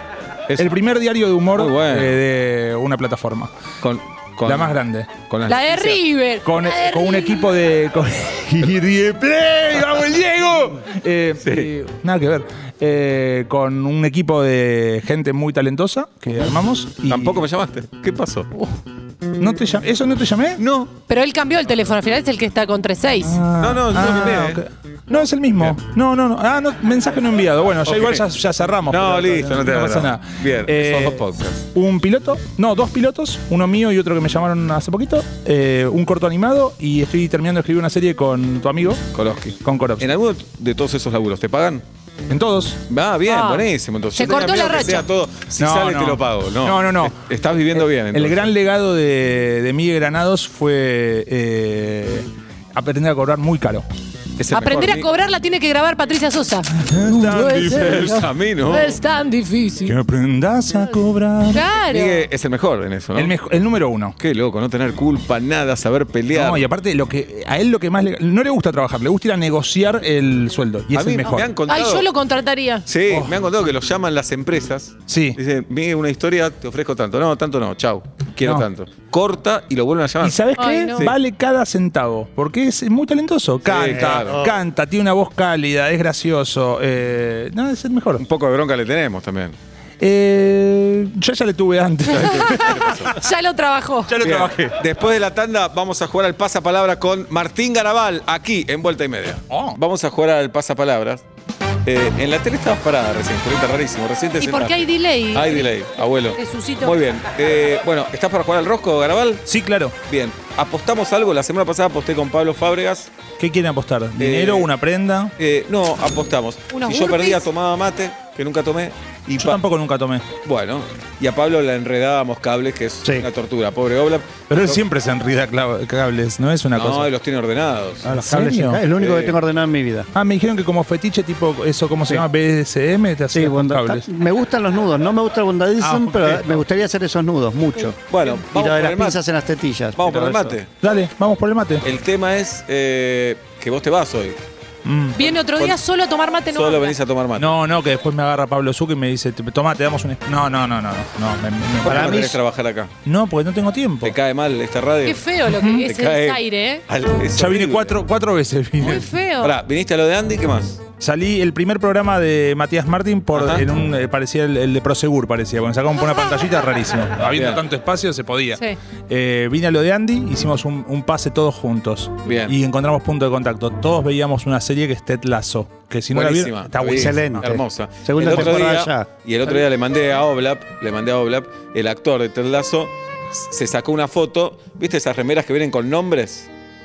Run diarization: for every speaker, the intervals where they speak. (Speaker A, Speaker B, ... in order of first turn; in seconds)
Speaker A: 0.6-3.5, 4.4-5.2, 6.4-17.4, 19.4-20.6, 23.2-39.0, 39.6-40.1, 42.3-42.8, 45.6-47.2, 47.7-53.9, 56.7-58.2, 59.8-61.6, 63.1-64.2, 66.3-71.5, 73.1-73.3, 75.1-75.4, 78.4-78.7, 80.2-88.2, 90.0-93.1, 94.1-94.8, 99.5-99.8, 109.5-109.9, 113.4-115.3, 119.4-120.2, 124.5-127.1, 128.1-128.8, 130.1-134.0, 135.8-136.6, 140.8-141.8, 144.8-145.2, 147.4-152.3, 153.0-154.2, 155.5-155.8, 157.3-159.1, 161.0-177.6, 178.3-178.6
Speaker B: 1.5-2.2, 3.8-6.0, 11.4-11.7, 17.1-18.5, 20.6-20.9, 23.6-24.6, 27.9-28.2, 28.9-31.6, 39.1-41.8, 42.9-48.5, 54.4-55.1, 57.6-59.0, 61.9-63.3, 64.2-66.7, 70.9-72.0, 72.8-81.2, 83.6-84.4, 88.2-89.5, 92.1-93.2, 94.2-101.2, 101.8-109.4, 110.1-113.1, 114.2-114.7, 115.4-119.6, 120.4-124.8, 126.7-128.1, 128.9-129.4, 138.1-139.2, 139.9-140.7, 141.8-144.4, 145.2-145.8, 146.5-147.5, 151.8-152.9, 154.0-155.2, 155.9-158.0, 159.4-160.8, 163.3-163.6, 167.3-167.6, 172.2-172.6, 176.1-186.5
Speaker C: 5.5-7.5, 21.1-23.4, 43.3-45.1, 54.5-60.0, 61.5-62.3, 71.7-72.8, 80.6-81.0, 92.2-94.2, 104.4-105.7, 106.3-107.0, 116.7-117.5, 145.2-146.9, 155.0-156.8, 158.8-159.6
Speaker D: 83.9-84.6, 128.0-130.1, 133.3-140.6, 151.8-152.4, 176.8-179.1